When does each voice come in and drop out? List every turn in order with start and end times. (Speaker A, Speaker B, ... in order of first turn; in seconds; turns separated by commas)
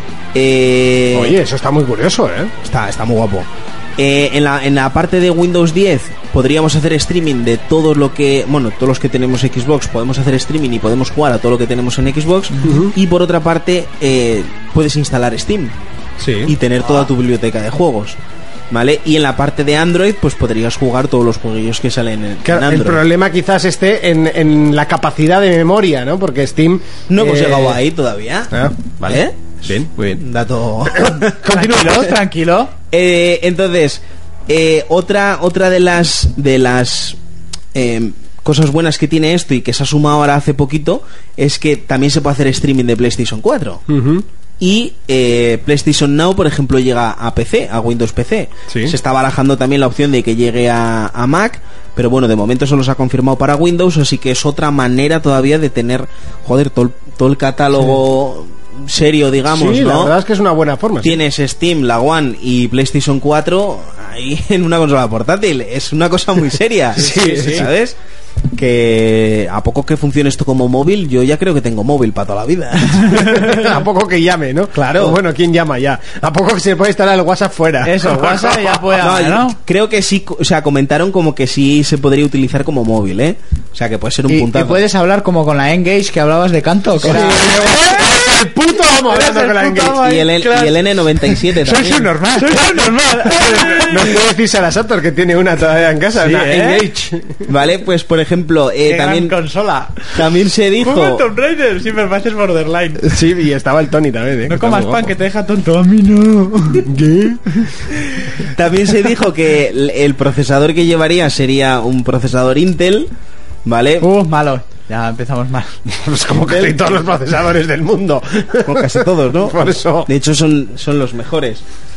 Speaker A: 0.3-1.4, Speaker B: 1.1-2.5, Speaker A: 2.6-15.7, Speaker B: 12.6-12.9, Speaker B: 16.2-16.5, Speaker A: 16.4-18.2, Speaker A: 18.7-23.0, Speaker B: 22.4-27.8, Speaker A: 27.1-28.5, Speaker B: 28.5-30.2, Speaker A: 29.0-29.5, Speaker A: 30.1-31.1, Speaker B: 31.1-31.9, Speaker C: 31.4-32.7, Speaker A: 32.9-37.2, Speaker A: 37.7-43.8, Speaker B: 43.9-44.2, Speaker A: 44.6-60.1, Speaker B: 59.5-61.2, Speaker A: 61.0-68.0, Speaker B: 66.9-67.7, Speaker C: 67.2-67.6, Speaker A: 68.5-73.1, Speaker B: 73.1-78.8, Speaker C: 73.3-73.6, Speaker A: 74.8-75.2, Speaker C: 77.8-79.6, Speaker A: 79.0-84.8, Speaker C: 84.3-88.3, Speaker B: 87.0-90.1, Speaker C: 88.9-94.2, Speaker A: 90.0-92.2, Speaker B: 91.7-97.4, Speaker C: 96.2-96.9, Speaker A: 97.5-99.3, Speaker C: 98.8-100.2, Speaker A: 100.1-101.2, Speaker C: 100.8-103.1, Speaker B: 103.1-105.1, Speaker C: 104.5-106.9, Speaker B: 106.8-107.6, Speaker A: 108.5-113.1, Speaker A: 113.6-114.1, Speaker C: 114.0-115.8, Speaker B: 116.0-120.1, Speaker A: 116.5-116.8, Speaker A: 118.6-121.6